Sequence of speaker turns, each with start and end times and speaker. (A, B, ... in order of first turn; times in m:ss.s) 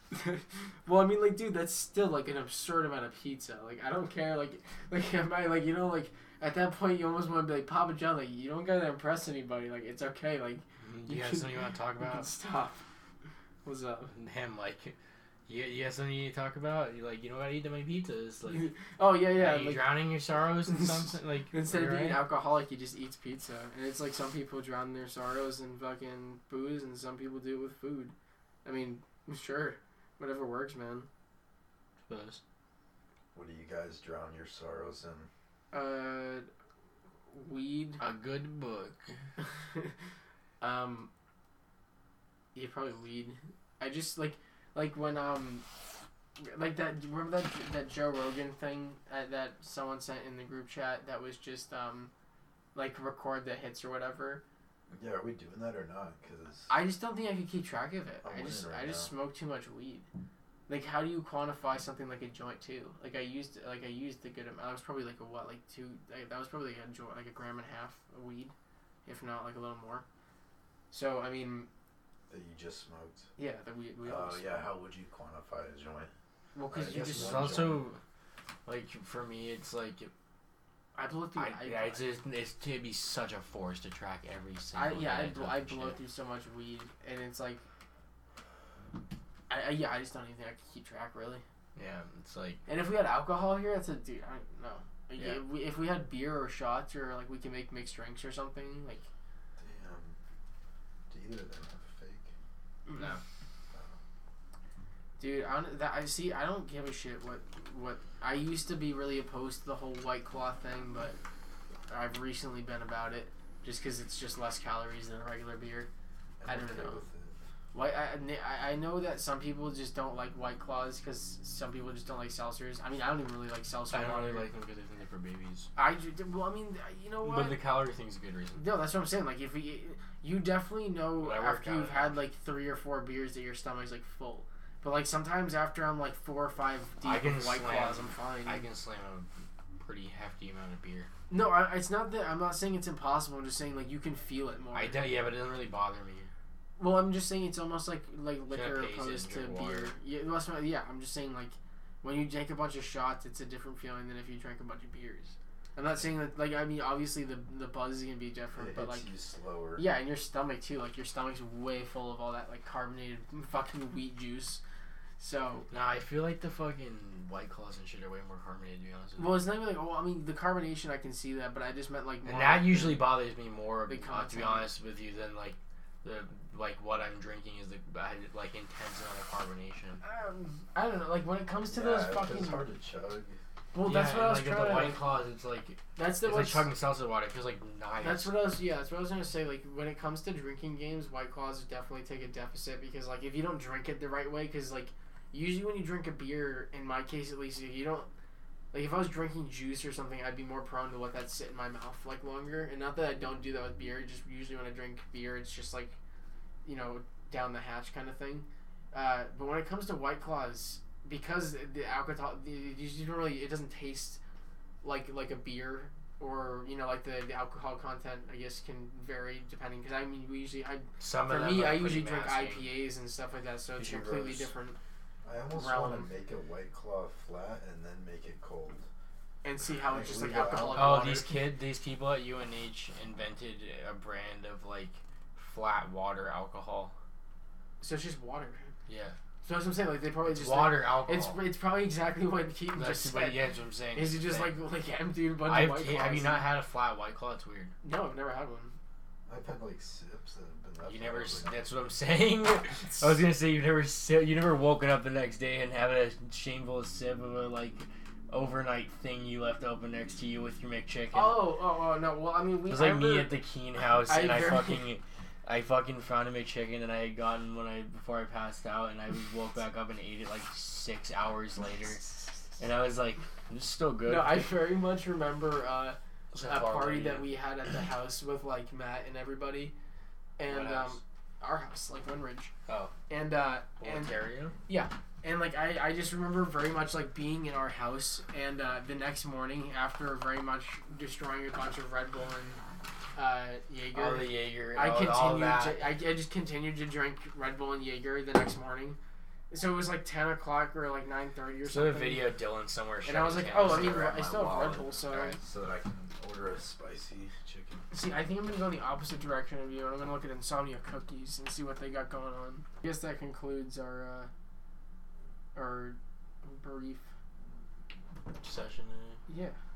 0:00.1-0:12.8 A
0:10.8-0:12.3 B
0:13.6-0:14.1 A
0:14.1-0:15.0 B
0:15.5-0:18.7 B
0:18.5-0:28.1 A
0:19.4-0:22.2 B
0:28.6-0:31.1 A
0:32.0-0:32.4 B
0:33.3-0:35.3 C
0:35.7-0:36.5 A
0:37.3-0:38.0 A
0:38.0-0:39.2 B
0:39.4-0:39.9 A
0:40.6-0:41.1 A
0:42.5-0:45.6 A
0:46.4-0:52.1 A
0:52.7-0:54.4 A
0:54.9-0:56.7 C
0:56.7-1:00.0 A
0:58.2-0:59.1 C
1:00.7-1:08.5 A
1:09.0-1:10.0 A
1:10.9-1:11.7 A
1:12.3-1:13.3 C
1:13.4-1:14.4 A
1:14.0-1:16.1 C
1:16.5-1:17.7 A
1:16.7-1:17.8 C
1:17.1-1:18.0 B
1:18.6-1:20.1 B
1:20.9-1:22.0 A
1:21.3-1:26.0 B
1:24.7-1:27.6 A
1:29.5-1:31.4 A
1:31.8-1:32.6 B
1:32.7-1:39.1 A
1:35.2-1:35.4 B
1:39.6-1:40.2 C
1:41.1-1:42.3 C
1:42.9-1:43.2 A
1:42.9-1:43.2 B
1:45.2-1:51.2 A
1:51.9-1:55.9 A
1:56.4-1:57.4 C
1:56.4-1:57.0 A
1:57.7-2:04.5 A
2:03.9-2:05.7 B
2:05.8-2:07.6 A
2:07.2-2:08.6 B
2:08.6-2:18.6 A
2:11.2-2:12.2 B
2:17.0-2:21.1 B
2:21.3-2:25.1 A
2:24.7-2:26.3 B
2:26.8-2:39.1 A
2:28.5-2:29.9 B
2:38.5-2:39.8 C
2:39.8-2:44.6 A
2:45.2-2:45.7 A
2:45.7-2:49.4 B
2:49.2-2:53.2 A
2:52.2-3:00.0 B
2:53.9-2:54.7 A
3:00.0-3:02.6 A
3:01.7-3:03.4 C
3:03.7-3:05.0 A
3:03.8-3:08.3 B
3:06.0-3:06.7 A
3:08.0-3:18.1 A
3:18.7-3:26.0 A
3:26.6-3:34.2 A
3:34.8-3:44.8 A
3:41.0-3:42.7 B
3:43.8-3:44.5 B
3:45.2-3:48.8 C
3:45.5-3:46.1 A
3:49.4-3:51.4 A
3:49.8-3:51.1 C
3:50.7-3:56.9 B
3:57.8-3:58.7 A
3:58.9-3:59.2 B
3:59.4-4:03.4 A
4:00.2-4:01.4 B
4:02.7-4:04.6 B
4:03.9-4:06.5 A
4:05.4-4:07.7 B
4:07.8-4:08.7 A
4:09.3-4:11.6 C
4:10.8-4:21.4 B
4:21.1-4:23.4 A
4:22.7-4:32.0 B
4:24.1-4:24.9 A
4:32.6-4:34.5 B
4:34.0-4:39.7 A
4:36.3-4:37.2 B
4:40.4-4:42.5 A
4:40.5-4:41.0 B
4:42.7-4:42.9 B
4:43.1-4:44.1 A
4:43.8-4:44.6 B
4:44.7-4:52.6 A
4:53.1-4:59.0 A
4:53.9-4:55.8 B
4:59.5-5:02.2 A
5:01.6-5:03.9 B
5:03.0-5:05.4 A
5:03.5-5:07.8 C
5:07.9-5:14.3 A
5:15.5-5:17.1 A
5:18.4-5:19.2 B
5:19.3-5:19.6 A